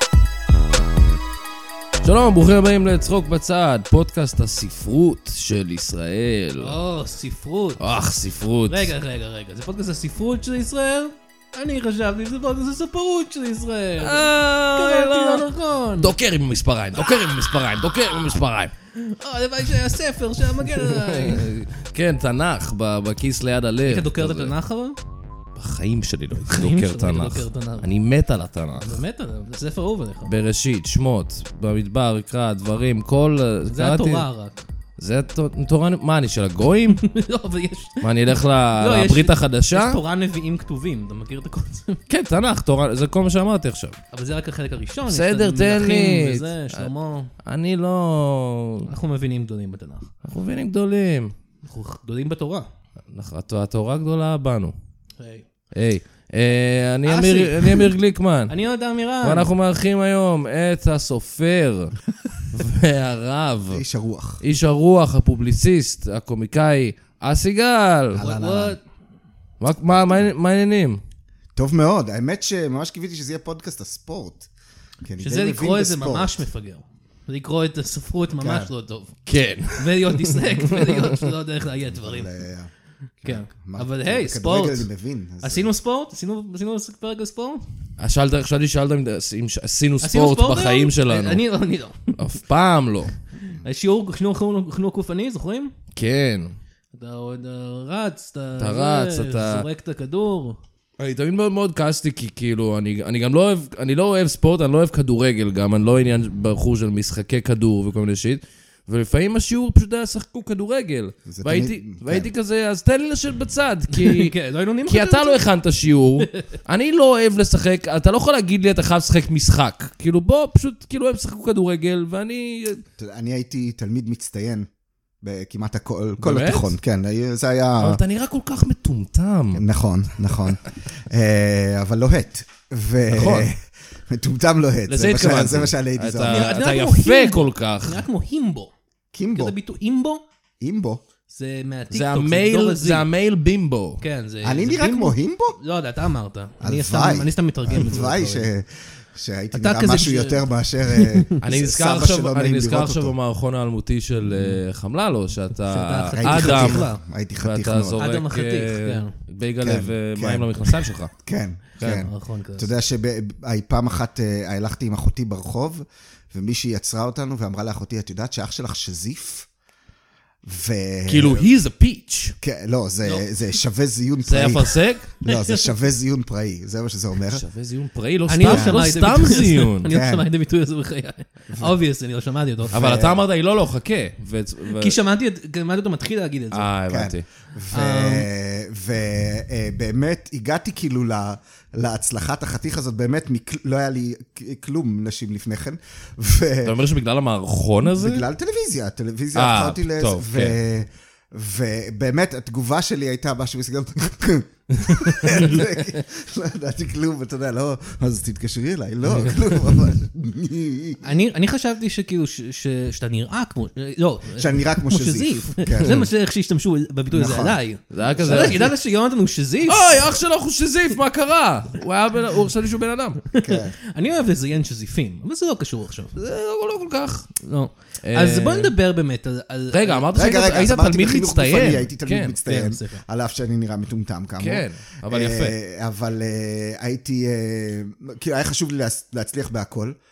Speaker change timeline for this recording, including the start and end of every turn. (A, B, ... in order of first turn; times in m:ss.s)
0:02.0-0:06.8 A
0:06.6-0:07.8 B
0:07.8-0:08.9 A
0:08.7-0:16.1 B
0:14.0-0:18.7 A
0:18.9-0:21.5 B
0:20.6-0:24.5 A
0:23.8-0:25.0 B
0:25.6-0:29.0 A
0:26.4-0:27.9 B
0:28.8-0:30.3 B
0:30.2-0:34.3 A
0:33.7-0:34.6 B
0:35.0-0:37.0 A
0:36.9-0:42.0 B
0:38.0-0:40.0 A
0:42.1-0:44.0 A
0:44.1-0:47.3 B
0:45.1-0:46.9 A
0:47.4-0:48.9 A
0:48.8-0:50.1 B
0:50.2-0:51.3 A
0:51.6-0:52.7 B
0:53.1-0:54.7 A
0:55.2-0:55.4 B
0:55.7-0:58.5 A
0:57.0-0:57.9 B
0:58.5-0:59.5 B
0:59.2-1:01.9 A
1:02.5-1:03.8 A
1:03.7-1:04.4 C
1:04.4-1:08.4 A
1:08.2-1:08.8 B
1:08.2-1:08.7 C
1:09.6-1:11.0 A
1:11.5-1:14.5 C
1:15.0-1:16.4 C
1:15.2-1:19.2 B
1:18.4-1:18.7 C
1:19.2-1:21.2 A
1:19.7-1:22.3 B
1:21.9-1:22.7 C
1:23.2-1:25.7 C
1:23.2-1:24.9 B
1:25.4-1:27.6 B
1:28.0-1:31.4 A
1:30.0-1:32.2 B
1:32.1-1:33.1 A
1:33.6-1:35.7 B
1:35.9-1:36.6 A
1:36.9-1:40.6 B
1:38.6-1:39.7 A
1:41.0-1:54.3 A
1:51.2-1:52.3 C
1:53.9-1:55.5 B
1:54.8-2:02.8 A
1:56.2-1:56.5 B
2:03.0-2:04.7 C
2:05.2-2:08.0 C
2:06.2-2:06.7 A
2:07.8-2:09.6 A
2:09.5-2:16.6 C
2:13.1-2:13.5 A
2:14.9-2:18.0 A
2:16.3-2:18.7 B
2:19.1-2:19.6 C
2:19.3-2:20.2 B
2:20.6-2:21.0 C
2:21.3-2:23.1 B
2:21.9-2:24.0 A
2:24.0-2:28.5 B
2:24.4-2:25.6 C
2:26.6-2:33.1 C
2:29.5-2:31.3 B
2:31.4-2:36.8 A
2:35.6-2:37.0 B
2:36.2-2:38.0 C
2:37.4-2:41.1 A
2:38.0-2:39.1 B
2:39.6-2:40.7 C
2:41.2-2:49.5 C
2:41.8-2:42.1 A
2:41.8-2:42.8 B
2:50.4-2:51.5 C
2:51.1-2:52.4 A
2:52.4-2:57.4 C
2:54.2-2:55.2 A
2:55.3-2:55.5 B
2:57.3-2:59.9 A
2:58.3-3:02.8 B
2:58.4-2:58.8 C
2:59.9-3:00.2 C
3:02.7-3:03.2 C
3:02.7-3:05.0 A
3:04.7-3:06.7 B
3:06.5-3:07.2 A
3:06.9-3:16.8 C
3:07.7-3:08.3 B
3:16.6-3:18.3 A
3:17.9-3:31.0 C
3:19.3-3:20.6 A
3:24.8-3:25.6 A
3:29.1-3:29.6 A
3:31.0-3:40.0 B
3:34.3-3:36.1 C
3:37.1-3:38.7 C
3:37.9-3:38.7 A
3:39.7-3:43.2 A
3:43.3-3:46.1 B
3:43.4-3:43.7 C
3:46.1-3:47.3 A
3:47.4-3:50.1 B
3:48.0-3:48.7 A
3:49.7-3:52.4 A
3:50.1-4:00.0 C
3:52.4-3:53.0 B
3:54.4-3:55.6 A